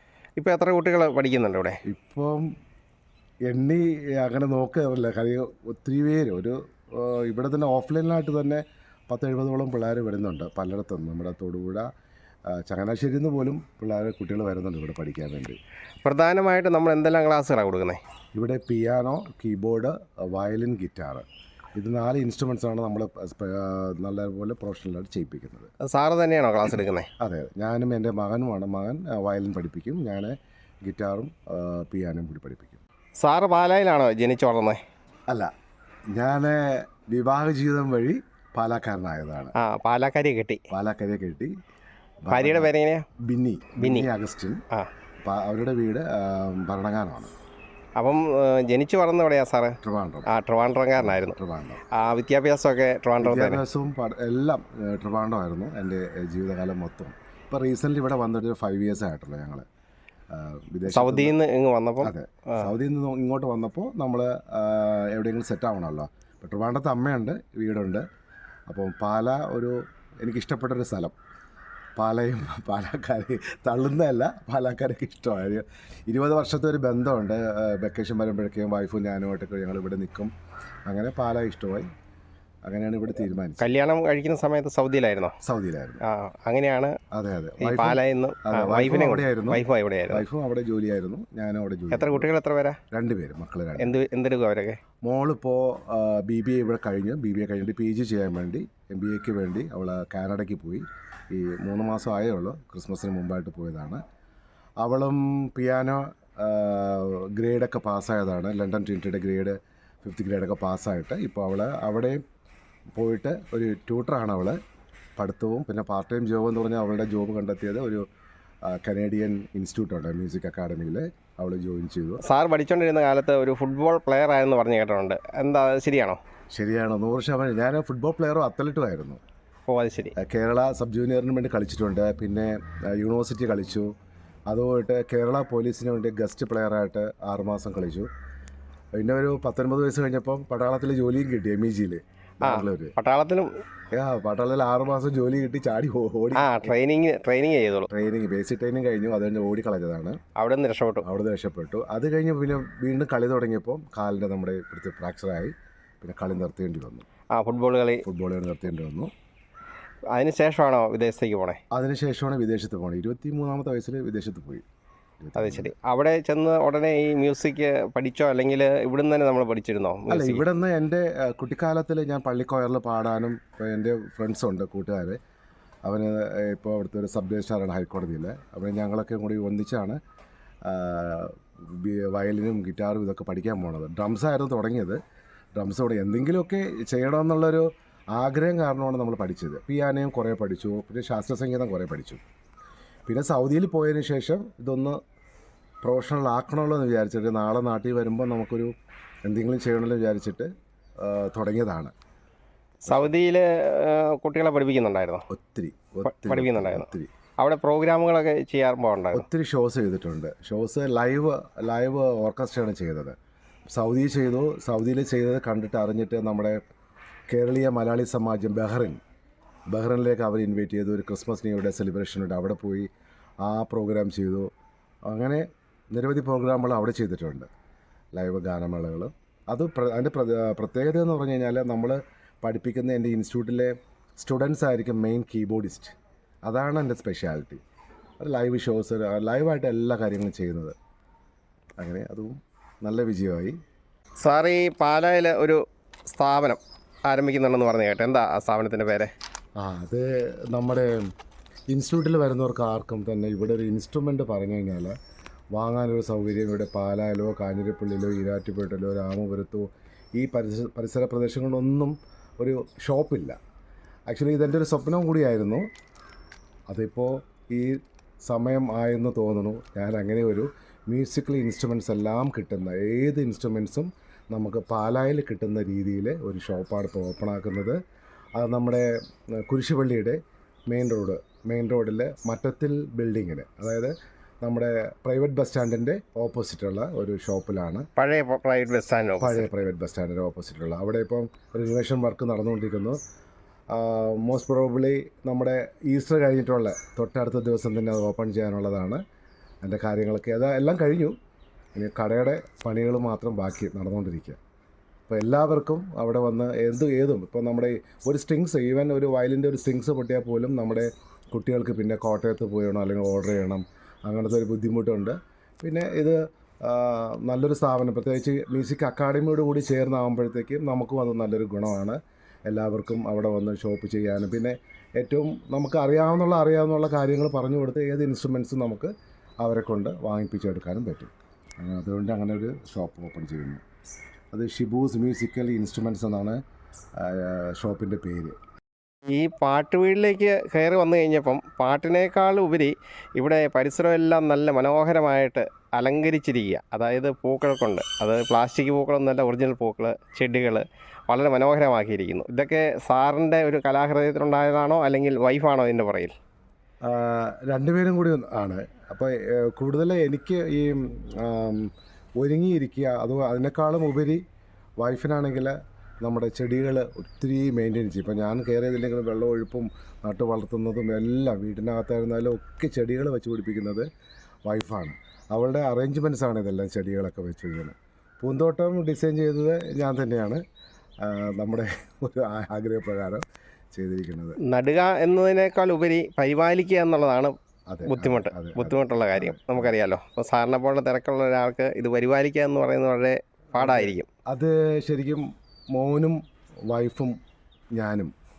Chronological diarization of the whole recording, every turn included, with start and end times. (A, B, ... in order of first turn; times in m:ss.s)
0:00.4-0:01.8 A
0:01.8-0:02.5 B
0:03.5-0:11.9 B
0:12.5-0:15.6 B
0:16.0-0:18.0 A
0:18.3-0:25.7 B
0:25.8-0:27.1 A
0:27.2-0:32.8 B
0:33.2-0:34.8 A
0:36.1-0:39.5 B
0:39.6-0:40.6 A
0:40.7-0:41.5 B
0:42.2-0:44.6 B
0:42.3-0:43.0 A
0:43.8-0:44.1 A
0:45.2-0:47.3 B
0:48.0-0:51.4 A
0:49.8-0:50.3 B
0:51.0-0:51.8 B
0:51.9-0:53.6 A
0:53.2-0:59.6 B
1:00.3-1:01.4 B
1:00.9-1:02.6 A
1:02.0-1:08.0 B
1:08.7-1:11.1 B
1:12.0-1:20.3 B
1:20.9-1:21.9 B
1:22.6-1:23.7 B
1:23.6-1:25.3 A
1:25.4-1:26.0 B
1:26.0-1:27.0 A
1:27.1-1:32.3 B
1:27.6-1:30.2 A
1:31.9-1:32.8 A
1:32.9-1:34.0 B
1:33.8-1:34.8 A
1:35.0-1:44.0 B
1:44.8-1:52.2 B
1:52.9-1:54.6 B
1:55.2-1:58.0 B
1:58.6-2:02.3 B
2:02.2-2:06.2 A
2:06.5-2:09.2 B
2:09.7-2:10.1 A
2:10.2-2:13.9 B
2:14.5-2:18.1 B
2:19.0-2:22.9 B
2:22.4-2:23.5 A
2:23.9-2:26.7 B
2:26.3-2:27.9 A
2:27.9-2:30.2 B
2:30.4-2:31.0 A
2:31.0-2:37.0 B
2:37.3-2:38.0 A
2:38.0-2:39.1 B
2:40.1-2:41.6 A
2:41.7-2:44.6 B
2:45.2-2:45.7 B
2:45.4-2:50.4 A
2:50.1-2:55.2 B
2:55.8-3:00.0 B
3:00.6-3:05.0 B
3:05.6-3:12.2 B
3:13.1-3:15.0 B
3:15.8-3:18.7 B
3:19.3-3:21.9 B
3:22.8-3:25.2 A
3:25.3-3:27.1 B
3:26.0-3:26.9 A
3:27.4-3:29.2 A
3:29.1-3:33.2 B
3:33.7-3:36.6 B
3:37.3-3:39.0 B
3:39.7-3:42.9 B
3:43.4-3:44.5 B
3:45.1-3:47.5 B
3:48.1-3:57.6 B
3:58.2-4:00.8 B
4:01.8-4:03.6 B
4:04.2-4:09.1 A
4:09.6-4:11.1 B
4:11.7-4:15.0 B
4:15.5-4:23.4 B
4:24.1-4:25.7 B
4:26.7-4:37.8 B
4:38.4-4:47.9 B
4:48.0-4:49.5 A
4:49.2-4:53.0 B
4:53.7-4:59.0 B
4:59.6-5:01.2 B
5:01.7-5:04.4 B
5:05.1-5:33.6 B
5:34.3-5:36.4 B
5:37.0-5:38.4 B
5:39.1-5:56.1 A
5:56.8-6:04.2 B
6:04.8-6:13.9 B
6:14.4-6:20.4 B
6:21.0-6:24.4 B
6:24.4-6:27.3 A
6:27.7-6:29.7 B
6:27.8-6:34.1 A
6:33.5-6:37.2 B
6:37.7-6:38.1 B